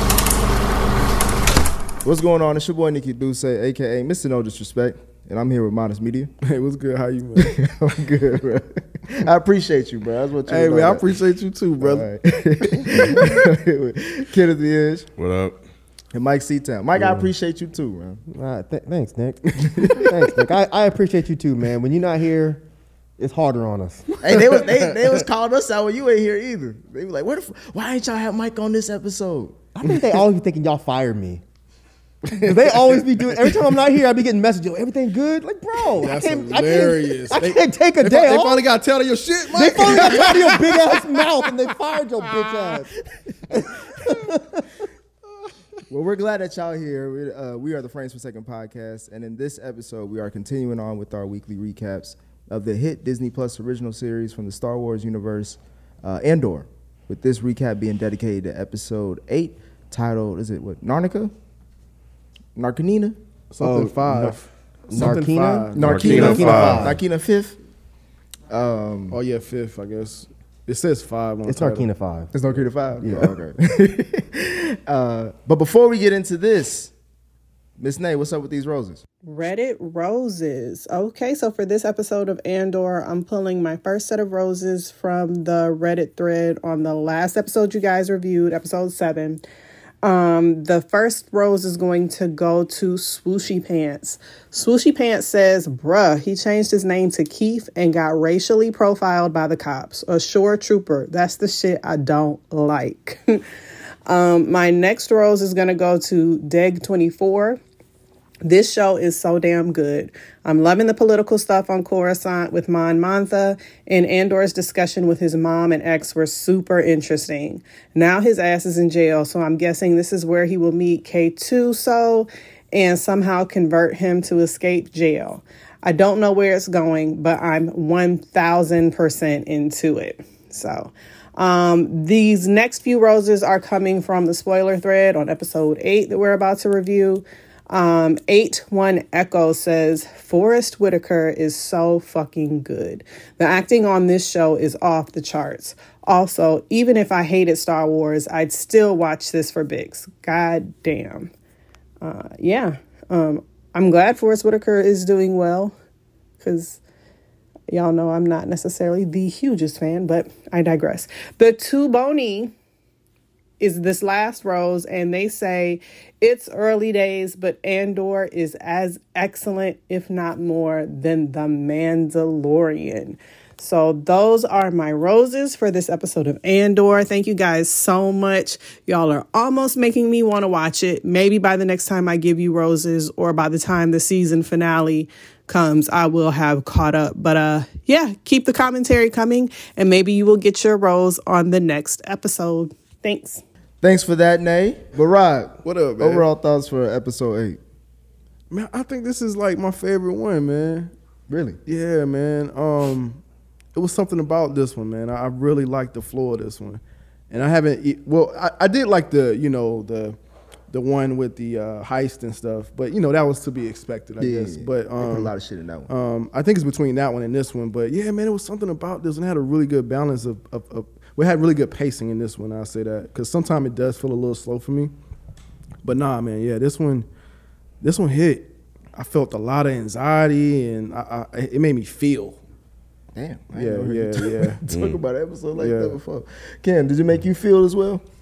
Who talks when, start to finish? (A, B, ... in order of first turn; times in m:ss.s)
0:02.0-0:06.3 A
0:06.4-0:07.5 B
0:07.4-0:11.0 A
0:10.5-0:12.1 B
0:11.8-0:15.1 A
0:12.9-0:13.4 C
0:15.2-0:15.6 D
0:16.1-0:18.2 A
0:17.0-0:17.3 C
0:18.3-0:22.6 C
0:19.7-0:20.0 A
0:23.2-0:25.1 C
0:24.2-0:30.2 A
0:29.8-0:31.4 C
0:32.2-0:32.9 A
0:32.4-0:38.7 C
0:35.8-0:41.5 B
0:39.5-0:44.8 C
0:45.9-1:01.3 A
1:02.6-1:03.2 A
1:03.5-1:06.6 B
1:03.6-1:04.4 C
1:04.9-1:07.0 C
1:05.7-1:07.6 A
1:05.8-1:07.0 D
1:08.5-1:09.2 A
1:09.1-1:11.8 B
1:11.5-1:12.3 C
1:12.3-1:16.9 A
1:13.0-1:13.4 C
1:17.8-1:19.0 A
1:19.2-1:29.4 E
1:30.0-1:43.4 E
1:44.1-1:47.6 E
1:48.4-2:31.3 E
2:32.0-2:35.7 E
2:36.4-2:36.8 E
2:37.7-2:42.5 E
2:43.6-3:13.4 E
3:13.8-3:17.6 A
3:15.6-3:16.3 B
3:18.5-3:20.9 B
3:21.3-3:21.6 A
3:21.6-3:23.2 B
3:23.7-3:30.2 B
3:30.7-3:35.3 B
3:34.2-3:35.9 A
3:35.9-3:44.9 B
3:45.8-3:47.1 B
3:47.8-3:52.4 B
3:53.1-3:58.0 A
3:53.5-3:54.6 B
3:54.7-3:55.0 D
3:55.5-3:56.0 B